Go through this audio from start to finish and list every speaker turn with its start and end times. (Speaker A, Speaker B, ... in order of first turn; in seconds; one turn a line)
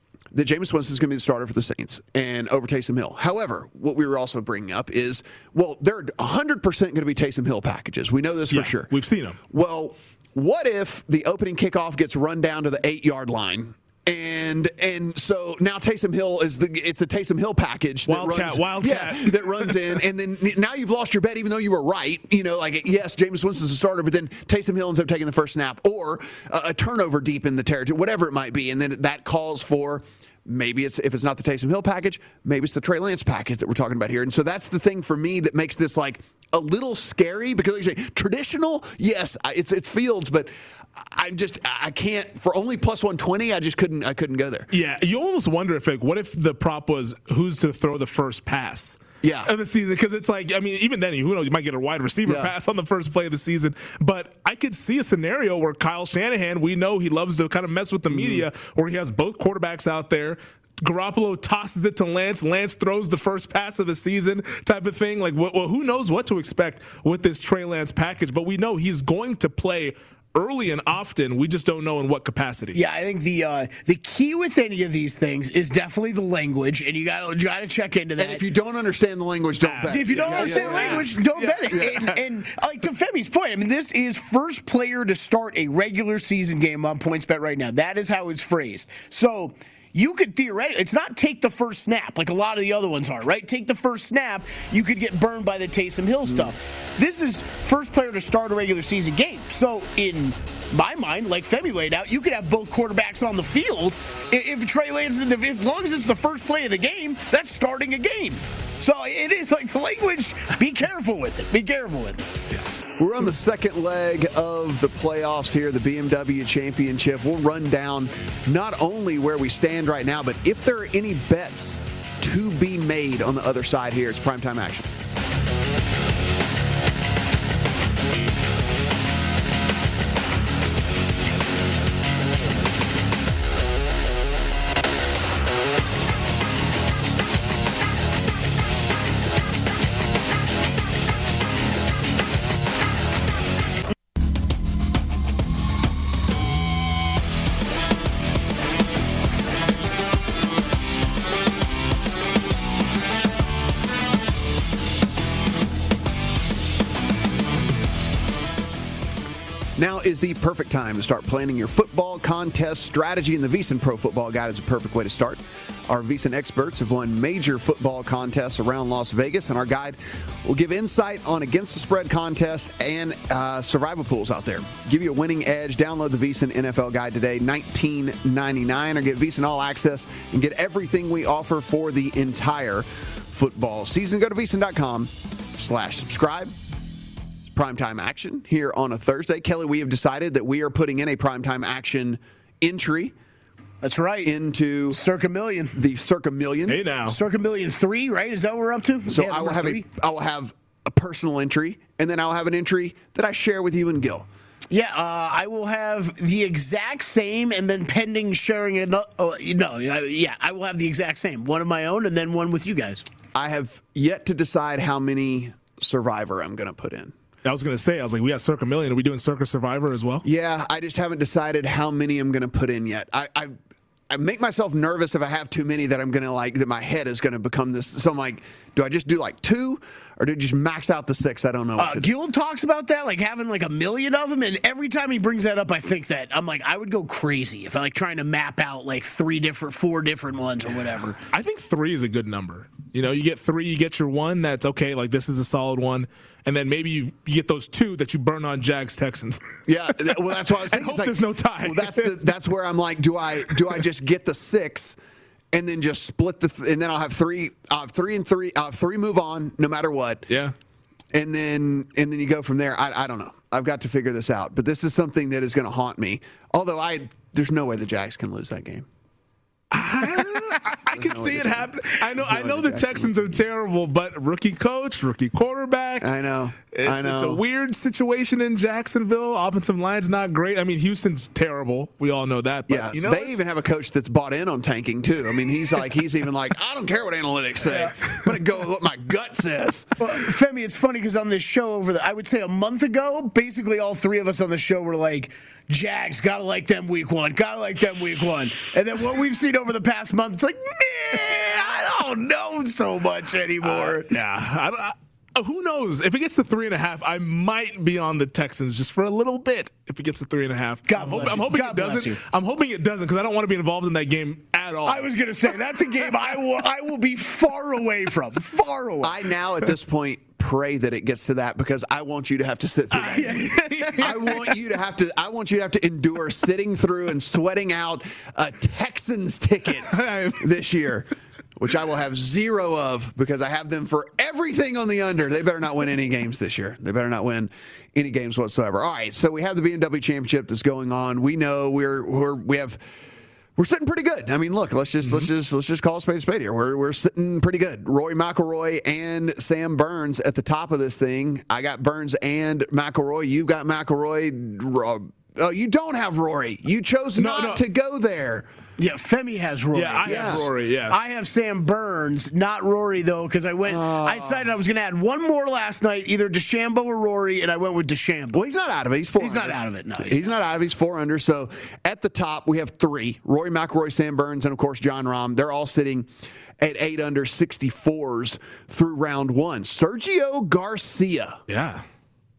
Speaker A: 0.3-8.9
Speaker B: 8.5-9.4
Speaker A: 9.5-44.7
Speaker B: 18.1-20.0
Speaker B: 44.7-72.8
Speaker A: 49.2-49.5
Speaker A: 52.3-52.5
Speaker A: 58.1-58.5
Speaker C: 72.7-78.4
Speaker A: 78.2-82.2
Speaker B: 79.6-82.2
Speaker C: 79.9-112.3
Speaker A: 113.0-124.9
Speaker A: 159.8-186.5
Speaker A: 187.5-193.1
Speaker C: 193.8-194.3
Speaker A: 194.2-195.0
Speaker C: 194.9-195.8
Speaker A: 195.8-196.8
Speaker B: 196.7-197.2
Speaker C: 197.1-199.8
Speaker A: 199.1-204.3
Speaker C: 204.7-213.1
Speaker A: 213.3-217.1
Speaker B: 217.4-220.2
Speaker A: 220.2-223.5
Speaker A: 224.1-232.1
Speaker C: 231.8-241.2
Speaker B: 241.3-249.4
Speaker A: 249.7-255.0
Speaker B: 250.1-252.2
Speaker A: 255.5-260.3
Speaker B: 260.3-260.5
Speaker A: 261.1-268.9
Speaker B: 269.7-276.1
Speaker A: 270.0-273.2
Speaker A: 276.0-277.4
Speaker B: 276.7-283.4
Speaker A: 282.7-289.9
Speaker B: 287.6-288.1
Speaker C: 290.0-304.1
Speaker B: 303.6-315.1
Speaker C: 310.9-312.2
Speaker C: 314.9-319.2
Speaker A: 319.0-342.8
Speaker B: 322.9-324.6
Speaker B: 329.9-330.4
Speaker A: 343.6-358.5
Speaker B: 345.0-345.3
Speaker B: 357.2-357.6
Speaker C: 358.8-368.4
Speaker B: 359.7-361.0
Speaker A: 360.0-360.5
Speaker A: 363.7-364.5
Speaker A: 368.3-376.1
Speaker C: 369.2-370.3
Speaker A: 376.6-381.4
Speaker B: 381.5-381.9